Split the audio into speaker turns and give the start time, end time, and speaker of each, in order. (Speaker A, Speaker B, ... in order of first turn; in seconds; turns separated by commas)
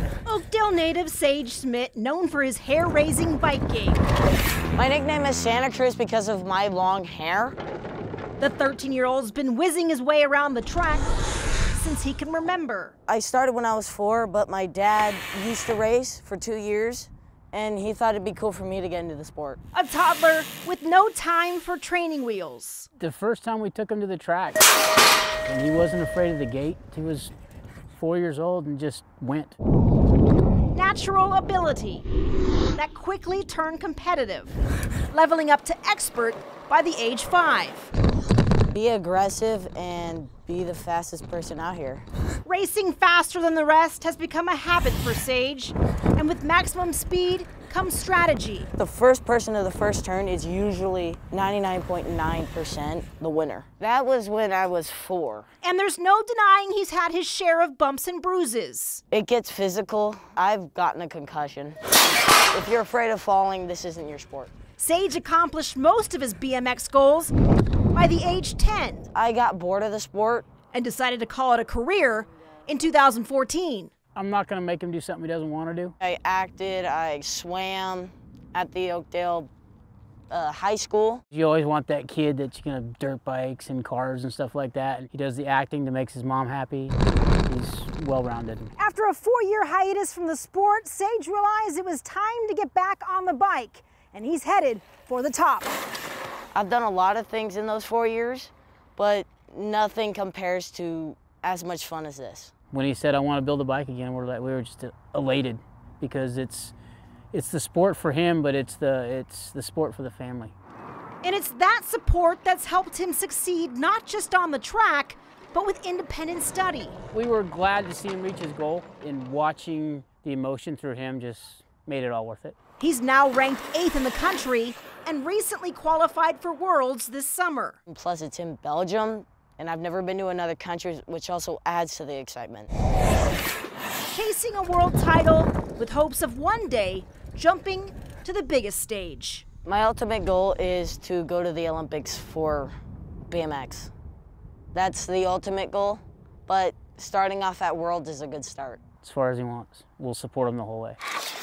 Speaker A: 0.2-4.0, Speaker B: 4.8-7.5, Speaker A: 8.4-11.1, Speaker A: 11.7-12.9, Speaker B: 13.1-19.6, Speaker A: 19.7-22.9, Speaker C: 23.0-24.6, Speaker C: 25.4-27.3, Speaker C: 27.9-29.6, Speaker A: 30.7-32.0, Speaker A: 32.7-34.6, Speaker A: 35.1-37.9, Speaker B: 38.7-42.0, Speaker A: 42.4-48.7, Speaker B: 48.8-55.5, Speaker A: 55.6-59.0, Speaker B: 59.1-61.8, Speaker B: 62.5-64.5, Speaker A: 64.8-67.3, Speaker A: 67.9-69.1, Speaker B: 69.1-70.5, Speaker A: 70.7-73.9, Speaker C: 74.1-75.9, Speaker B: 76.0-79.5, Speaker B: 80.3-81.2, Speaker C: 81.3-88.7, Speaker A: 88.8-95.7, Speaker B: 96.5-102.5, Speaker C: 102.7-106.7, Speaker C: 107.3-110.5, Speaker A: 111.2-117.0, Speaker C: 117.1-122.5, Speaker A: 122.8-127.8, Speaker B: 127.9-132.7, Speaker A: 134.1-139.4, Speaker B: 139.6-142.7, Speaker B: 143.3-143.9, Speaker B: 144.7-148.8, Speaker C: 149.0-151.0